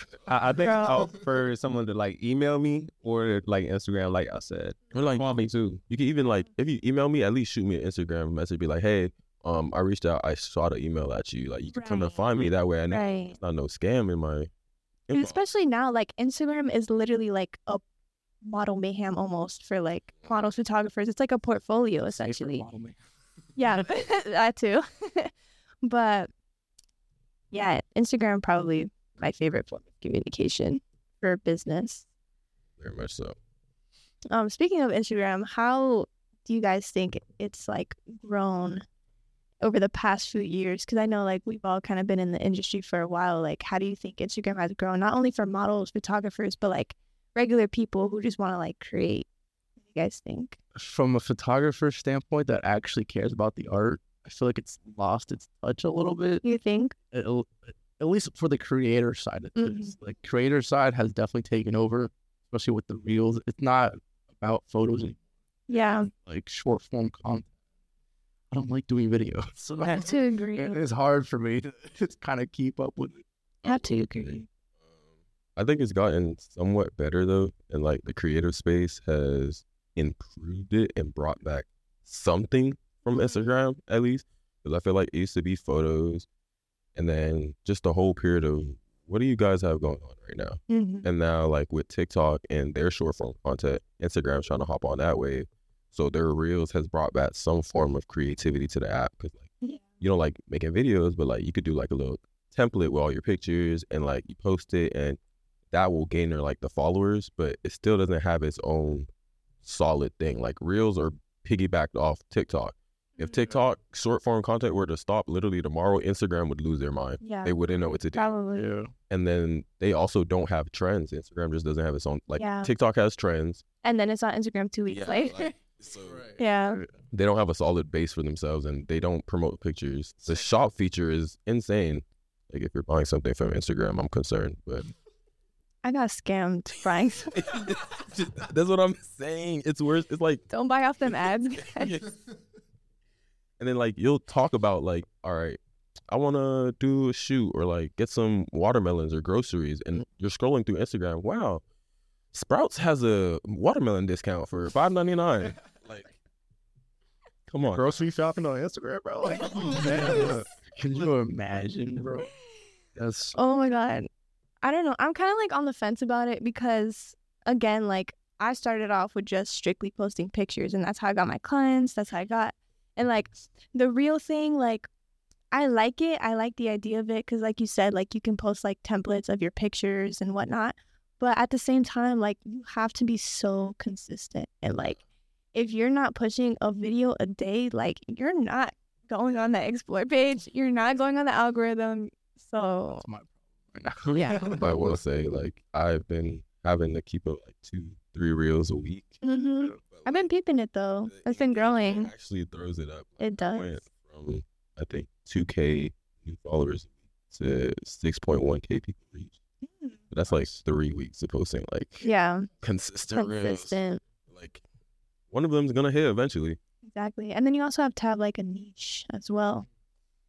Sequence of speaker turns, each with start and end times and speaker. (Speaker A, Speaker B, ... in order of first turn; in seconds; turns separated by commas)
Speaker A: 0.3-5.8, Speaker B: 0.7-1.0, Speaker C: 4.9-5.2, Speaker C: 5.9-14.5, Speaker B: 11.7-12.2, Speaker B: 12.9-13.4, Speaker C: 15.1-15.4, Speaker B: 15.1-17.8, Speaker B: 18.4-22.6, Speaker D: 22.1-23.0, Speaker B: 23.6-25.3, Speaker B: 25.8-26.3, Speaker B: 27.5-32.0, Speaker C: 32.8-33.4, Speaker B: 34.3-38.8, Speaker B: 39.6-49.3, Speaker B: 49.8-50.5, Speaker D: 50.7-56.4, Speaker B: 56.4-56.9, Speaker D: 57.1-65.2, Speaker B: 59.5-59.9, Speaker B: 65.7-66.1, Speaker D: 66.2-67.5, Speaker D: 68.5-73.2, Speaker B: 69.9-70.8, Speaker B: 73.6-74.5, Speaker C: 73.7-74.4, Speaker C: 75.5-86.2, Speaker C: 87.0-105.2, Speaker B: 90.7-91.1, Speaker C: 105.7-109.1, Speaker C: 109.6-118.3, Speaker B: 117.2-117.6, Speaker B: 118.1-118.7, Speaker D: 118.5-118.9, Speaker C: 119.1-123.6, Speaker B: 122.3-122.7, Speaker B: 123.8-125.5, Speaker C: 124.9-126.3, Speaker D: 126.1-126.9, Speaker B: 126.4-126.8, Speaker C: 127.1-134.9, Speaker B: 135.8-137.4, Speaker C: 137.3-140.4, Speaker B: 140.5-142.0, Speaker C: 141.8-142.1, Speaker C: 143.6-151.6, Speaker C: 152.3-156.1, Speaker C: 157.5-157.9, Speaker D: 157.7-162.3, Speaker D: 162.9-163.3, Speaker B: 163.3-164.1, Speaker B: 164.6-174.9, Speaker B: 175.5-185.0, Speaker B: 185.5-193.1, Speaker D: 192.9-195.0, Speaker B: 194.1-194.6, Speaker C: 194.6-199.2, Speaker B: 199.2-202.1, Speaker C: 199.9-200.3, Speaker C: 201.1-209.3, Speaker B: 203.2-203.8, Speaker B: 209.6-210.0, Speaker C: 210.1-212.1, Speaker B: 212.0-212.5, Speaker C: 212.6-214.6, Speaker B: 213.1-214.0, Speaker C: 215.3-216.6, Speaker B: 216.9-219.7